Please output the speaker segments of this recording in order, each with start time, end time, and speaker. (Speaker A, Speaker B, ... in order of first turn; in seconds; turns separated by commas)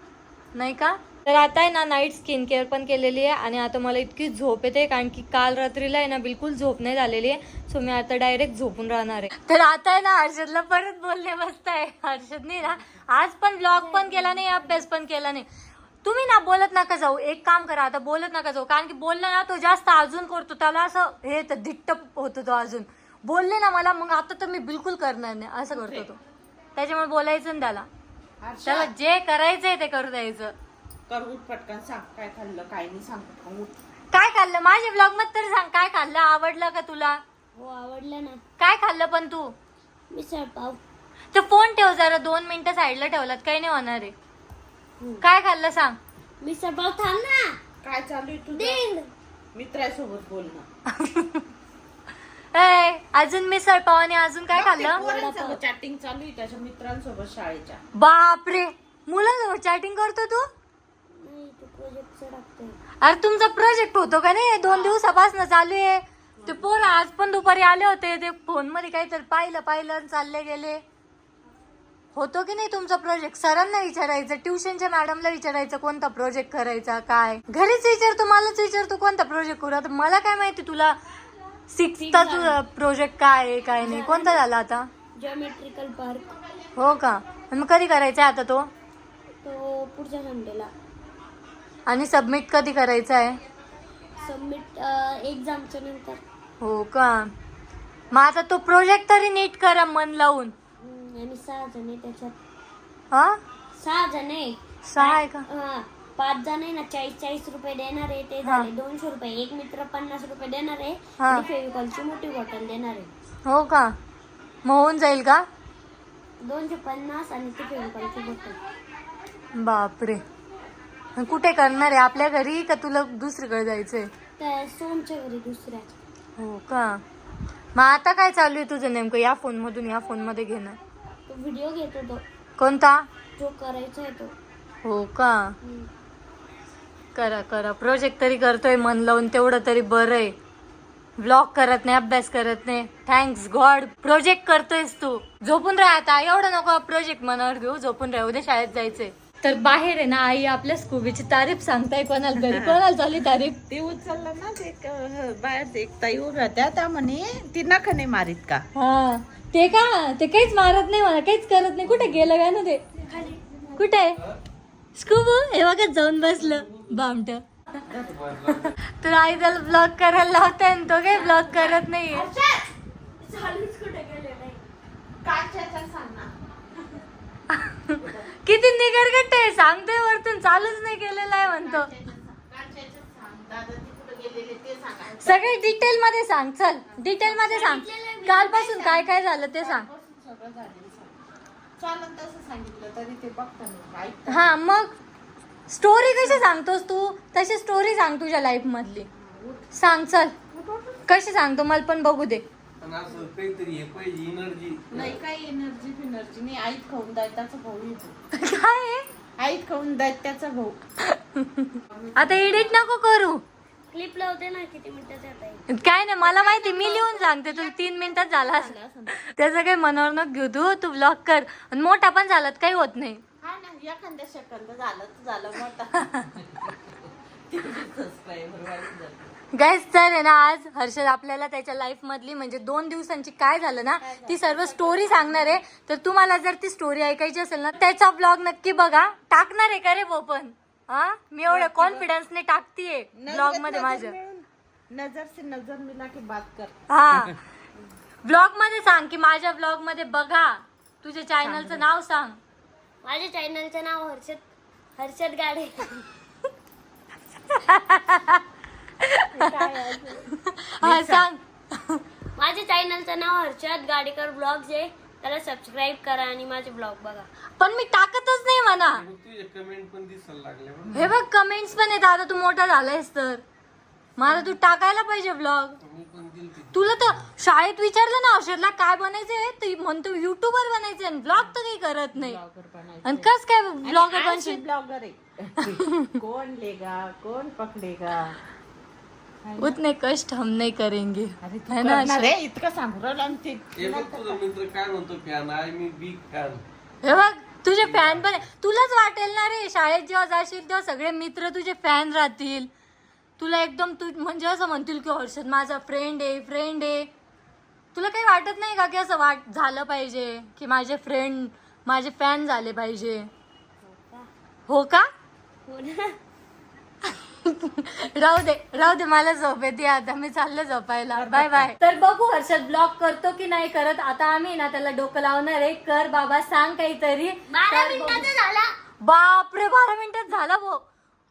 Speaker A: 0.5-15.4, Speaker B: 13.7-14.8, Speaker A: 16.0-26.2, Speaker C: 25.7-26.1, Speaker A: 26.8-27.9, Speaker C: 28.4-28.9, Speaker A: 28.6-30.5, Speaker C: 31.1-33.7, Speaker A: 34.1-37.2, Speaker B: 37.5-38.4, Speaker A: 38.6-39.5, Speaker B: 40.1-40.8, Speaker A: 41.3-44.1, Speaker A: 45.2-46.0, Speaker B: 46.4-47.6, Speaker C: 47.8-48.9, Speaker B: 48.5-49.1, Speaker C: 49.5-50.6, Speaker A: 50.9-51.4, Speaker A: 52.5-55.6, Speaker C: 54.5-57.8, Speaker A: 58.0-60.5, Speaker B: 61.1-62.8, Speaker A: 63.0-70.8, Speaker A: 72.1-81.0, Speaker A: 81.7-84.9, Speaker B: 82.0-82.6, Speaker B: 83.8-84.4, Speaker B: 85.2-86.4, Speaker A: 86.8-88.7, Speaker B: 89.4-90.7, Speaker A: 91.8-93.4, Speaker B: 94.2-96.2, Speaker A: 96.6-97.3, Speaker A: 98.1-100.5, Speaker B: 100.8-102.3, Speaker A: 103.1-103.4, Speaker B: 103.8-113.1, Speaker A: 104.8-105.5, Speaker A: 108.4-108.7, Speaker A: 111.2-111.5, Speaker A: 113.5-114.0, Speaker A: 114.6-115.5, Speaker B: 116.4-118.6, Speaker A: 119.5-120.2, Speaker A: 121.2-124.1, Speaker B: 124.4-125.9, Speaker A: 126.4-127.0, Speaker A: 127.7-130.8, Speaker B: 131.3-132.2, Speaker A: 132.6-133.1, Speaker B: 133.4-134.3, Speaker A: 134.8-135.5, Speaker B: 135.6-135.9, Speaker A: 137.1-140.3, Speaker A: 141.2-153.6, Speaker C: 152.4-152.8, Speaker C: 153.7-158.6, Speaker A: 158.8-162.8, Speaker B: 163.1-163.4, Speaker A: 163.8-164.2, Speaker A: 164.9-167.4, Speaker D: 166.5-166.9, Speaker C: 167.9-168.6, Speaker D: 168.1-168.7, Speaker A: 169.0-172.3, Speaker B: 171.1-171.8, Speaker C: 172.1-172.7, Speaker B: 173.2-174.6, Speaker C: 175.2-176.3, Speaker A: 177.5-181.9, Speaker C: 181.4-185.8, Speaker A: 185.2-189.9, Speaker C: 186.9-187.2, Speaker B: 187.2-188.8, Speaker C: 188.5-191.2, Speaker C: 191.8-194.6, Speaker A: 194.3-194.9, Speaker A: 195.7-199.1, Speaker C: 199.2-199.6, Speaker A: 199.7-200.3, Speaker C: 200.5-201.0, Speaker A: 201.1-202.4, Speaker D: 202.8-205.1, Speaker C: 204.9-208.1, Speaker A: 208.3-209.1, Speaker C: 209.4-210.8, Speaker A: 211.0-213.4, Speaker C: 211.9-212.8, Speaker B: 213.9-215.7, Speaker A: 215.7-223.2, Speaker B: 216.2-217.4, Speaker C: 216.6-219.3, Speaker C: 223.4-226.7, Speaker C: 227.5-229.3, Speaker A: 229.5-244.2, Speaker C: 234.0-235.6, Speaker C: 241.5-242.1, Speaker C: 243.2-246.7, Speaker A: 246.9-247.4, Speaker A: 248.2-252.4, Speaker C: 251.4-251.8, Speaker B: 253.0-254.4, Speaker B: 255.0-256.1, Speaker A: 257.5-258.4, Speaker A: 259.0-259.3, Speaker C: 259.3-260.3, Speaker A: 260.4-262.0, Speaker C: 260.8-261.2, Speaker B: 262.4-267.3, Speaker A: 267.6-269.0, Speaker D: 268.9-271.1, Speaker A: 270.9-273.4, Speaker A: 274.2-275.8, Speaker C: 274.2-274.5, Speaker D: 275.8-277.2, Speaker A: 276.7-282.4, Speaker C: 282.1-283.3, Speaker A: 283.0-284.6, Speaker C: 283.8-288.4, Speaker C: 289.4-289.8, Speaker A: 289.6-292.3, Speaker C: 291.4-294.4, Speaker D: 293.7-296.6, Speaker A: 297.0-302.7, Speaker D: 297.7-298.4, Speaker A: 303.4-307.1, Speaker A: 307.9-313.3, Speaker B: 313.8-314.3, Speaker A: 314.7-315.1, Speaker B: 315.6-316.2, Speaker A: 317.1-328.3, Speaker C: 321.1-321.7, Speaker B: 327.5-328.7, Speaker A: 329.0-330.8